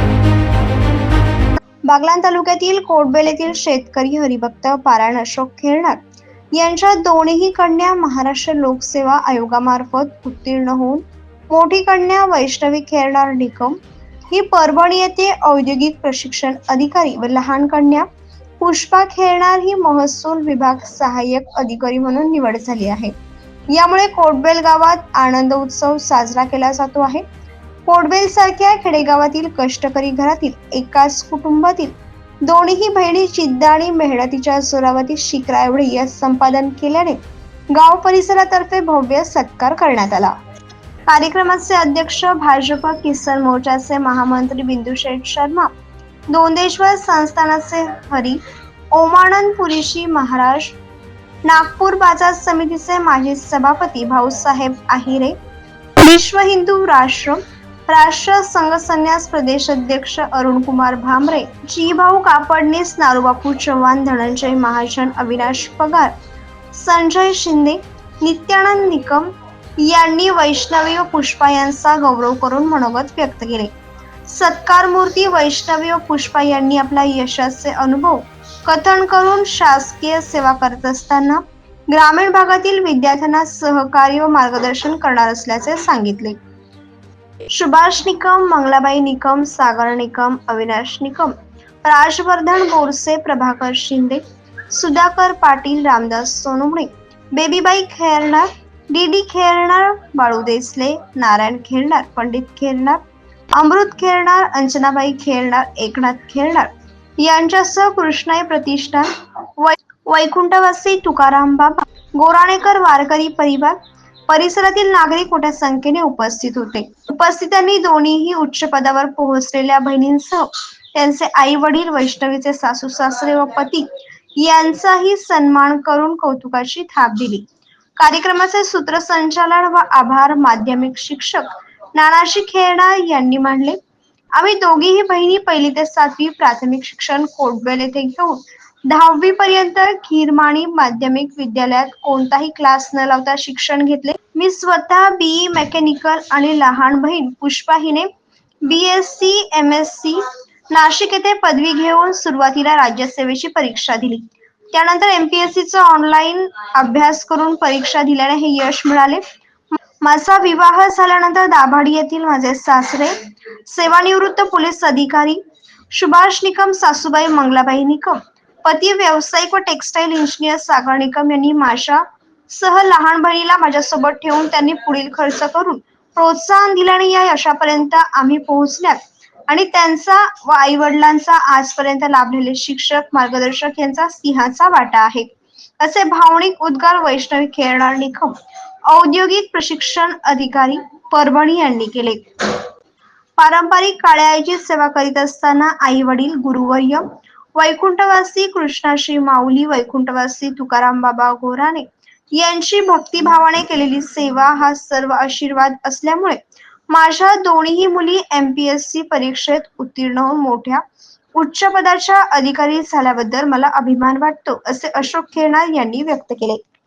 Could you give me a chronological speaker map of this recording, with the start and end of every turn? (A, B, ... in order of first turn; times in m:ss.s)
0:01.9-0:06.0 A
0:06.5-0:13.8 A
0:14.3-0:18.1 A
0:18.6-0:23.1 A
0:23.7-0:27.2 A
0:27.8-0:37.2 A
0:37.7-0:40.3 A
0:41.1-0:45.7 A
0:46.3-0:48.4 A
0:48.9-0:50.8 A
0:51.4-0:55.4 A
0:56.0-1:06.1 A
1:06.7-1:13.7 A
1:14.2-1:26.4 A
1:27.5-1:43.0 A
1:43.5-1:53.8 A
1:54.3-2:07.4 A
2:08.0-2:13.8 A
2:14.4-2:28.1 A
2:28.6-2:39.2 A
2:40.0-2:43.1 A
2:43.6-3:12.6 A
3:13.4-3:17.0 A
3:17.5-3:30.8 A
3:31.4-3:36.6 A